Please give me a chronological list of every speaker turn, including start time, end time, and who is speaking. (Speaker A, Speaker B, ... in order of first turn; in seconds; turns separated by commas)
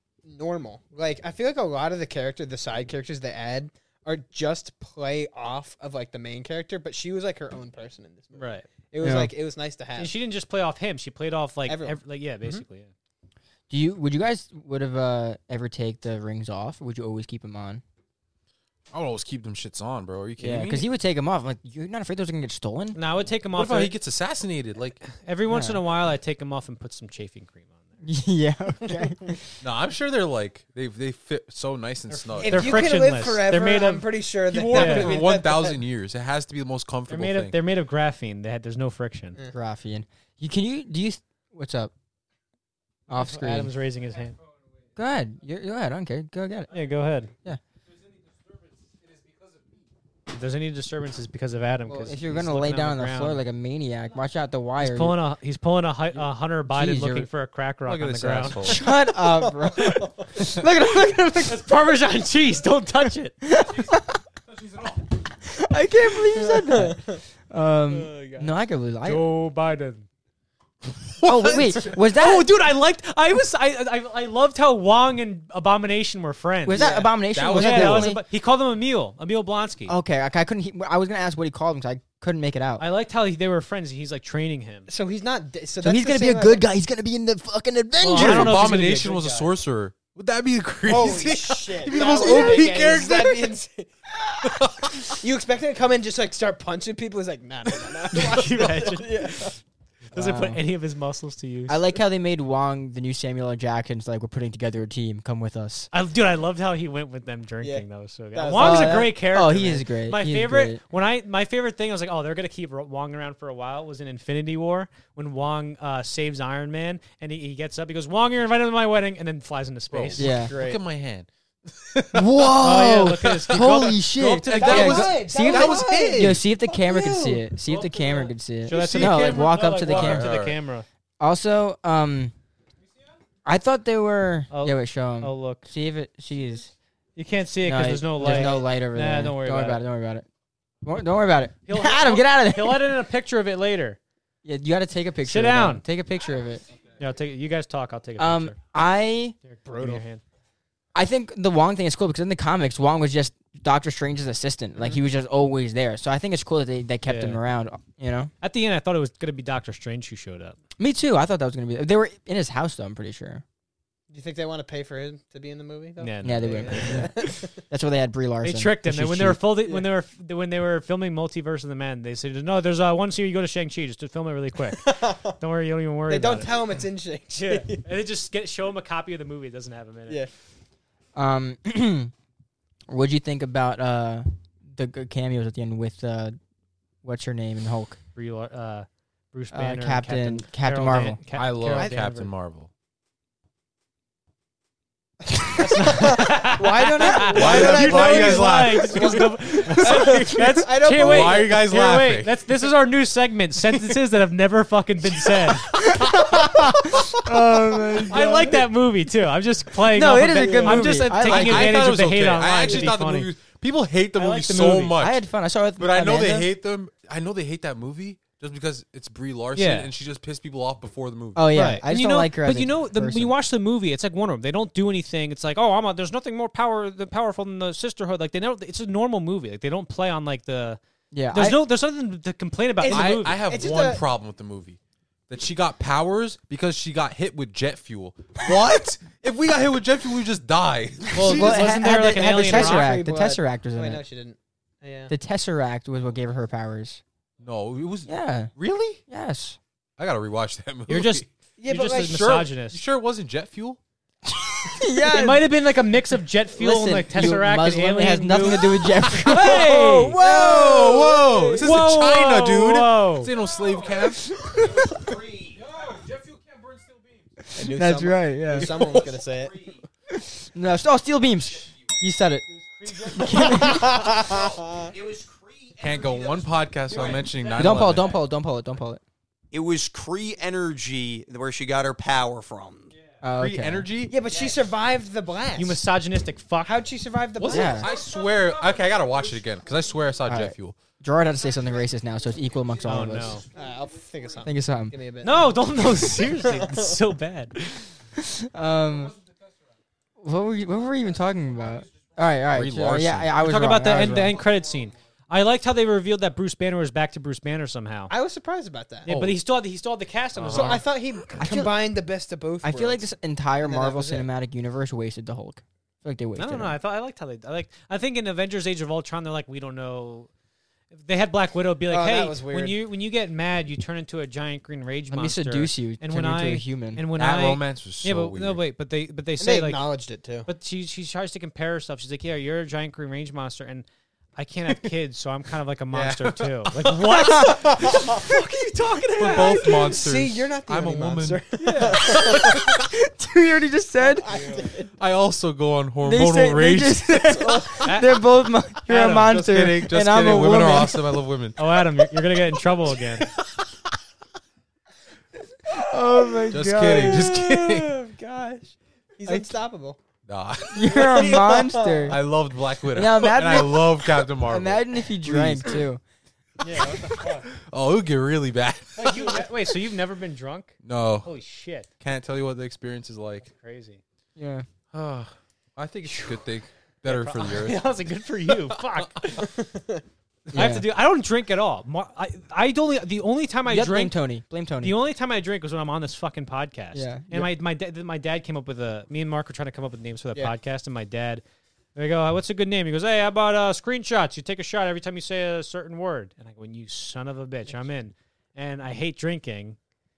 Speaker A: 0.3-10.1, Speaker B: 8.4-8.7, Speaker C: 9.0-9.3, Speaker B: 9.9-12.9, Speaker A: 11.7-12.6, Speaker C: 13.7-17.8, Speaker D: 18.9-20.9, Speaker C: 20.4-23.0, Speaker B: 22.9-23.9, Speaker D: 23.5-25.0, Speaker B: 25.0-27.9, Speaker C: 25.5-25.8, Speaker C: 28.0-29.4, Speaker D: 29.6-32.9, Speaker B: 32.1-35.1, Speaker A: 32.4-35.8, Speaker D: 34.5-37.5, Speaker B: 37.1-39.4, Speaker C: 39.5-41.9, Speaker C: 43.1-43.7, Speaker B: 43.1-44.4, Speaker C: 45.0-46.7, Speaker B: 46.7-47.3, Speaker B: 50.3-53.4, Speaker C: 51.9-55.2, Speaker B: 54.8-58.8, Speaker C: 56.7-57.3, Speaker D: 57.9-58.9, Speaker C: 58.6-61.7, Speaker A: 59.1-60.5, Speaker B: 61.5-63.4, Speaker C: 63.4-64.2, Speaker C: 65.2-67.0, Speaker A: 66.3-67.2, Speaker C: 67.5-69.3, Speaker A: 67.9-68.5, Speaker B: 69.0-70.0, Speaker C: 71.2-72.5, Speaker B: 71.4-77.0, Speaker C: 76.6-78.2, Speaker A: 76.7-77.1, Speaker D: 77.3-78.1, Speaker B: 77.5-80.0, Speaker C: 79.9-82.8, Speaker B: 82.8-84.9, Speaker A: 84.9-86.6, Speaker C: 85.8-88.9, Speaker B: 88.0-89.5, Speaker D: 88.1-93.5, Speaker A: 90.8-93.9, Speaker D: 94.4-95.2, Speaker A: 95.2-99.5, Speaker B: 98.1-99.6, Speaker B: 100.1-101.8, Speaker C: 100.1-100.6, Speaker C: 101.7-105.9, Speaker B: 105.9-120.3, Speaker A: 107.6-109.1, Speaker C: 108.5-110.8, Speaker D: 119.9-126.4, Speaker C: 120.2-120.5, Speaker A: 120.3-120.8, Speaker C: 122.1-130.4, Speaker B: 122.6-125.0, Speaker A: 124.6-128.3, Speaker B: 128.6-130.9, Speaker D: 128.7-130.6, Speaker C: 131.2-132.3, Speaker C: 133.4-136.7, Speaker B: 134.5-135.7, Speaker B: 137.2-139.8, Speaker C: 137.6-140.3, Speaker C: 140.8-143.0, Speaker B: 141.7-144.0, Speaker C: 144.4-146.6, Speaker B: 145.2-145.8, Speaker B: 147.0-148.6, Speaker C: 148.2-149.4, Speaker B: 149.4-150.2, Speaker A: 149.7-150.0, Speaker C: 150.9-158.3, Speaker B: 157.1-157.4, Speaker B: 158.4-160.6, Speaker C: 160.8-163.4, Speaker A: 164.1-167.5, Speaker B: 166.0-167.1, Speaker C: 166.2-169.4, Speaker B: 168.4-176.5, Speaker A: 174.7-175.4, Speaker A: 176.1-177.8, Speaker B: 177.3-180.2, Speaker C: 181.1-182.1, Speaker C: 182.9-186.4, Speaker C: 187.0-188.0, Speaker B: 188.1-192.3, Speaker C: 189.5-191.2, Speaker D: 191.3-192.7, Speaker A: 195.4-201.6, Speaker B: 195.6-205.8, Speaker D: 197.1-200.2, Speaker D: 200.8-202.3, Speaker C: 205.6-208.6, Speaker A: 207.6-208.6, Speaker B: 208.0-213.3, Speaker C: 209.9-211.9, Speaker A: 210.4-210.9, Speaker D: 210.8-215.2, Speaker B: 214.2-214.9, Speaker C: 214.9-216.5, Speaker D: 215.8-221.5, Speaker B: 219.6-219.9, Speaker C: 221.3-223.3, Speaker B: 221.5-230.8, Speaker C: 231.1-231.6, Speaker B: 231.3-233.4, Speaker A: 232.8-234.0, Speaker D: 232.9-234.8, Speaker D: 235.3-241.6, Speaker B: 241.1-242.9, Speaker C: 241.2-244.0, Speaker A: 242.0-245.1, Speaker C: 245.1-247.0, Speaker D: 247.4-249.0, Speaker C: 248.1-248.5, Speaker C: 249.1-249.6, Speaker D: 250.0-251.3, Speaker B: 250.9-252.8, Speaker A: 251.6-252.1, Speaker D: 251.9-253.8, Speaker C: 254.7-255.5, Speaker B: 254.9-260.2, Speaker C: 256.5-260.8, Speaker D: 258.6-259.5, Speaker A: 259.5-261.7, Speaker D: 260.2-264.4, Speaker B: 261.6-263.3, Speaker C: 264.0-264.9, Speaker E: 264.9-265.6, Speaker C: 267.4-269.0, Speaker A: 267.5-269.6, Speaker D: 268.6-268.9, Speaker C: 270.1-272.4, Speaker C: 273.1-274.1, Speaker A: 273.1-274.9, Speaker E: 274.9-276.4, Speaker D: 275.8-278.2, Speaker E: 276.9-277.3, Speaker C: 277.5-279.0, Speaker E: 279.5-282.9, Speaker C: 283.2-283.9, Speaker D: 283.4-284.1, Speaker A: 284.1-285.8, Speaker B: 285.6-286.8, Speaker A: 286.6-287.9, Speaker D: 287.4-290.8, Speaker C: 287.5-287.9, Speaker C: 290.3-293.4, Speaker B: 292.9-293.4, Speaker A: 293.5-295.6, Speaker C: 294.4-294.9, Speaker B: 295.2-297.6, Speaker A: 296.2-297.0, Speaker C: 298.2-299.2, Speaker C: 300.2-304.4, Speaker D: 302.5-303.3, Speaker B: 303.4-308.1, Speaker A: 308.1-309.4, Speaker B: 309.1-310.8, Speaker D: 310.4-310.8, Speaker A: 310.5-313.1, Speaker C: 311.4-311.7, Speaker C: 312.6-316.8, Speaker A: 313.6-314.3, Speaker B: 316.4-320.3, Speaker B: 320.9-329.8, Speaker A: 321.9-322.8, Speaker C: 325.1-327.0, Speaker D: 327.2-328.6, Speaker A: 329.4-330.5, Speaker B: 330.4-339.9, Speaker D: 335.9-336.9, Speaker A: 337.4-338.2, Speaker D: 339.2-342.8, Speaker A: 339.3-342.8, Speaker B: 341.6-342.0, Speaker C: 342.3-344.4, Speaker A: 344.0-344.9, Speaker D: 345.0-347.7, Speaker C: 346.0-351.2, Speaker A: 347.4-347.9, Speaker B: 347.8-348.2, Speaker B: 348.9-349.5, Speaker D: 349.3-352.0, Speaker B: 351.6-353.3, Speaker C: 355.7-357.4, Speaker D: 356.5-358.1, Speaker A: 357.0-360.0, Speaker D: 360.3-361.5, Speaker C: 360.7-362.2, Speaker A: 360.9-362.2, Speaker D: 362.1-365.8, Speaker C: 362.9-366.0, Speaker B: 366.6-367.4, Speaker D: 366.9-369.4, Speaker B: 369.0-371.9, Speaker A: 369.1-369.4, Speaker D: 370.8-371.3, Speaker D: 372.0-373.4, Speaker B: 373.4-374.0, Speaker C: 374.4-374.7, Speaker D: 374.9-377.9, Speaker B: 377.1-379.5, Speaker A: 379.4-380.0, Speaker C: 380.5-380.9, Speaker B: 380.5-384.2, Speaker C: 383.7-384.9, Speaker B: 384.8-391.4, Speaker C: 386.9-387.5, Speaker B: 391.9-399.8